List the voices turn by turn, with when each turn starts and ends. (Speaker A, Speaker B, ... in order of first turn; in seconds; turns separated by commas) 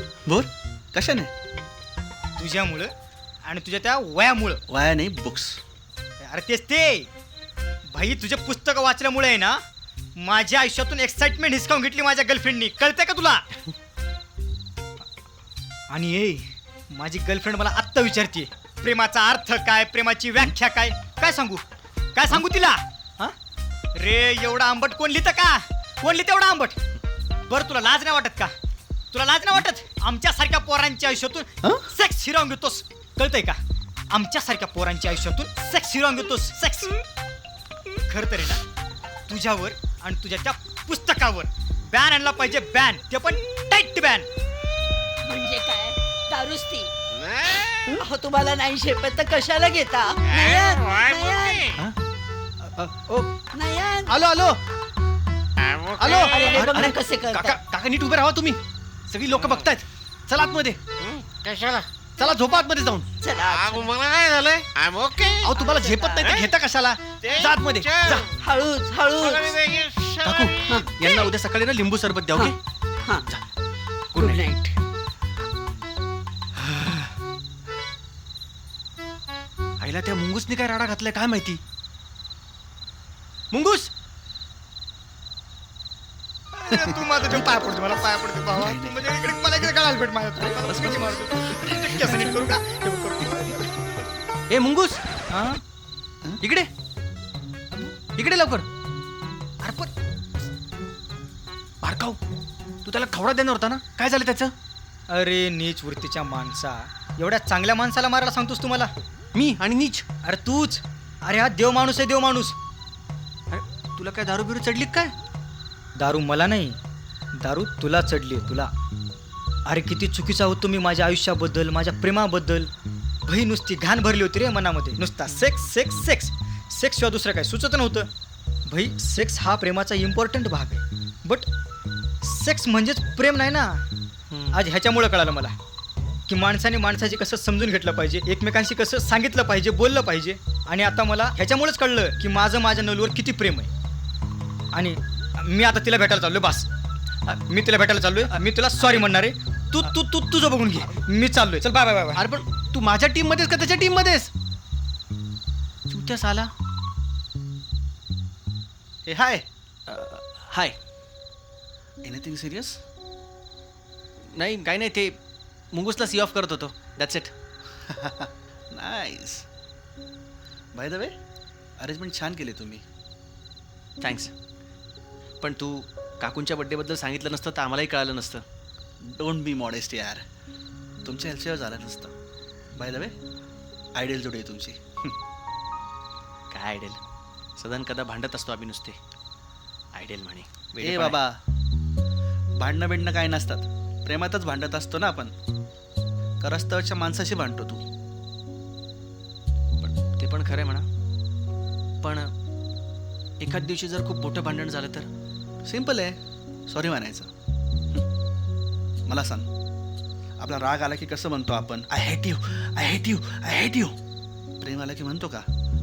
Speaker A: 0.2-1.3, Speaker B: 2.4-2.9, Speaker B: 3.4-4.6, Speaker A: 4.7-5.6, Speaker B: 6.2-7.1, Speaker B: 7.9-9.6, Speaker B: 10.2-13.4, Speaker B: 15.9-21.6, Speaker B: 22.1-23.4, Speaker B: 23.9-26.8, Speaker B: 27.5-28.5, Speaker B: 29.1-33.6, Speaker B: 34.1-37.0, Speaker B: 38.1-38.6, Speaker B: 39.3-44.3, Speaker C: 45.2-46.9, Speaker D: 47.2-48.0, Speaker C: 47.9-51.7, Speaker D: 50.2-51.7, Speaker E: 52.7-53.3, Speaker C: 53.5-54.2, Speaker E: 54.1-54.6, Speaker D: 55.6-56.7, Speaker E: 56.0-60.8, Speaker C: 56.2-57.6, Speaker D: 61.0-61.9, Speaker E: 62.2-63.1, Speaker C: 63.2-63.9, Speaker D: 63.4-65.6, Speaker E: 65.4-68.3, Speaker C: 65.6-66.3, Speaker D: 66.2-66.5, Speaker D: 67.2-68.3, Speaker C: 68.4-69.6, Speaker D: 69.2-70.8, Speaker E: 70.2-72.6, Speaker E: 74.1-74.5, Speaker C: 74.1-74.8, Speaker E: 79.8-81.6, Speaker E: 83.5-83.9, Speaker B: 86.5-93.9, Speaker A: 86.7-87.0, Speaker A: 88.5-89.1, Speaker A: 90.4-92.4, Speaker E: 94.5-95.0, Speaker B: 95.3-95.6, Speaker E: 96.4-96.7, Speaker E: 98.1-98.7, Speaker B: 99.6-99.9, Speaker E: 101.8-102.2, Speaker E: 102.8-104.5, Speaker B: 105.1-108.9, Speaker E: 109.3-110.0, Speaker B: 110.2-112.5, Speaker E: 113.5-115.1, Speaker B: 116.0-116.8, Speaker B: 117.4-118.7, Speaker B: 119.7-122.7, Speaker B: 123.2-128.1, Speaker E: 125.3-125.7, Speaker B: 128.7-131.5, Speaker B: 132.2-133.8, Speaker E: 134.3-134.6, Speaker B: 134.5-135.6, Speaker B: 136.3-143.7, Speaker B: 144.7-146.7, Speaker B: 147.2-152.2, Speaker E: 148.3-149.1, Speaker E: 152.1-154.3, Speaker E: 155.9-156.5, Speaker A: 159.1-159.4, Speaker E: 159.9-160.8, Speaker A: 162.0-162.8, Speaker E: 164.3-165.2, Speaker E: 165.7-167.3, Speaker A: 167.9-169.4, Speaker A: 170.7-171.1, Speaker A: 171.8-172.8, Speaker E: 174.0-174.3, Speaker E: 175.4-178.4, Speaker A: 179.0-180.2, Speaker A: 181.0-182.1, Speaker A: 182.7-183.2, Speaker A: 183.9-185.1, Speaker E: 186.5-187.0, Speaker E: 187.6-189.0, Speaker E: 189.9-191.2, Speaker A: 190.8-191.4, Speaker A: 192.6-195.3, Speaker A: 196.4-197.8, Speaker E: 199.8-200.9, Speaker E: 202.0-202.3, Speaker E: 203.4-205.1, Speaker A: 205.6-207.3, Speaker A: 209.1-209.5, Speaker A: 210.4-213.9, Speaker A: 214.6-215.5